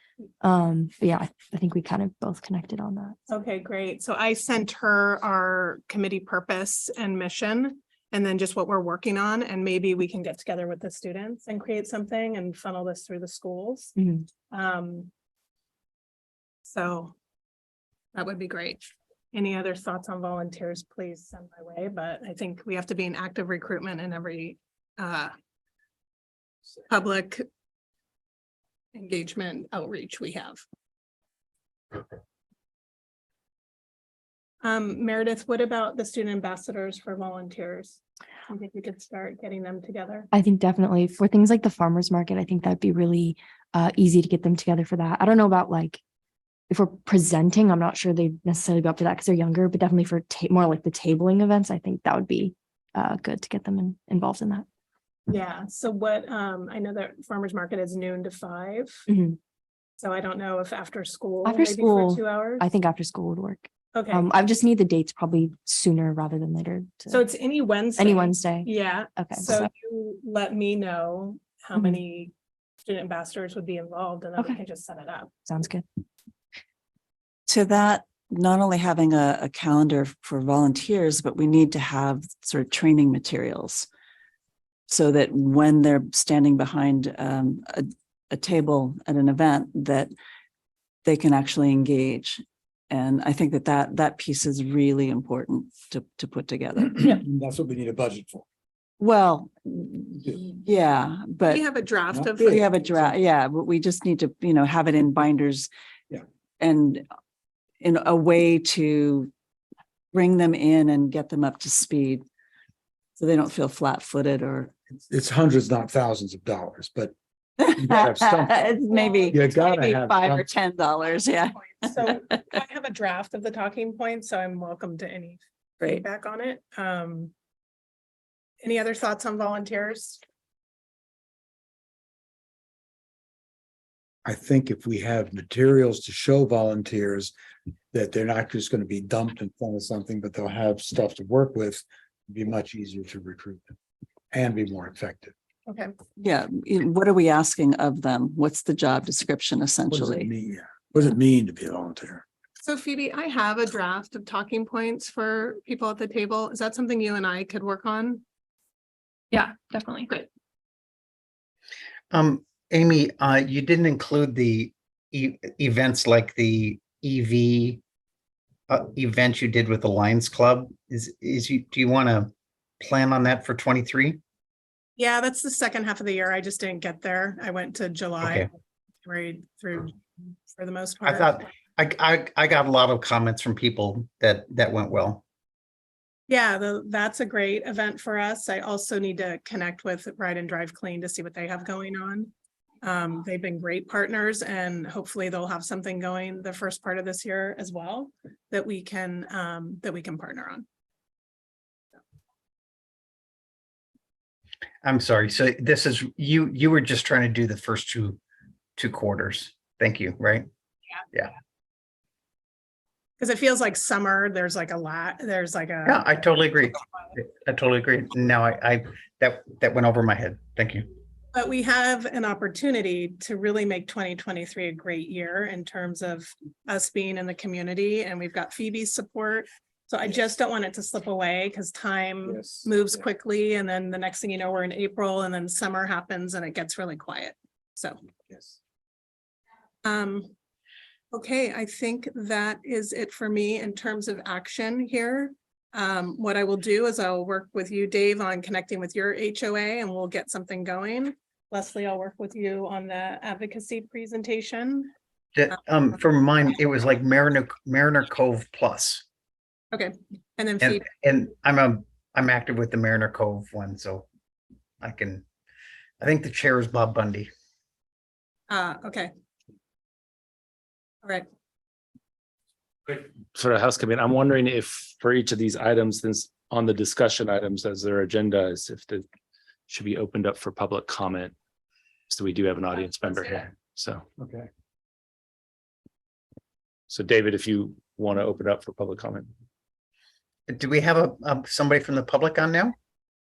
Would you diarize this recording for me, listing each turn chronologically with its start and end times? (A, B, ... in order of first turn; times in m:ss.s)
0:00.4-0:03.2 A
0:03.3-0:13.9 B
0:14.0-0:14.2 A
0:14.5-0:15.1 B
0:16.6-0:17.1 B
0:18.1-0:25.3 B
0:26.9-0:27.4 B
0:28.9-0:30.6 B
0:34.6-0:40.3 B
0:40.3-0:46.0 A
0:46.7-0:54.6 A
0:55.3-0:59.0 B
0:59.1-0:59.4 A
1:00.0-1:02.6 B
1:01.4-1:07.2 A
1:03.9-1:04.3 B
1:07.1-1:15.3 B
1:08.0-1:09.7 A
1:15.4-1:15.8 A
1:17.5-1:23.9 C
1:24.9-1:30.1 C
1:31.0-1:37.0 C
1:36.8-1:38.4 D
1:39.0-1:41.6 C
1:41.5-1:42.6 B
1:42.1-1:43.2 D
1:42.4-1:45.7 C
1:46.6-1:47.0 C
1:47.8-1:49.3 C
1:50.1-1:52.2 C
1:53.2-1:54.7 C
1:55.0-1:57.1 D
1:57.6-2:02.1 C
1:57.8-2:00.5 D
1:58.9-1:59.8 B
2:01.6-2:07.3 B
2:08.6-2:10.2 B
2:14.2-2:17.3 D
2:17.9-2:23.7 D
2:24.3-2:25.3 D
2:25.7-2:25.9 B
2:26.2-2:30.3 C
2:29.9-2:32.2 D
2:32.6-2:38.2 B
2:39.3-2:40.1 A
2:42.1-2:47.8 E
2:48.7-2:54.2 E
2:55.0-3:01.4 B
2:58.2-2:58.5 E
3:01.0-3:05.2 E
3:06.3-3:20.6 B
3:24.8-3:28.2 E
3:28.8-3:30.5 E
3:33.2-3:36.1 B
3:35.8-3:40.9 E
3:41.3-3:58.0 B
3:52.3-3:52.7 D
3:58.3-3:58.6 D
3:59.8-4:00.3 B
4:01.1-4:14.9 B
4:15.4-4:19.0 E
4:19.7-4:20.8 B
4:20.6-4:24.0 E
4:24.8-4:25.2 E
4:26.0-4:27.3 E
4:28.5-4:29.1 B
4:32.9-4:39.0 F
4:39.7-4:41.3 F
4:42.1-4:44.0 F
4:44.2-4:44.5 D
4:46.9-4:49.3 F
4:50.5-4:52.7 E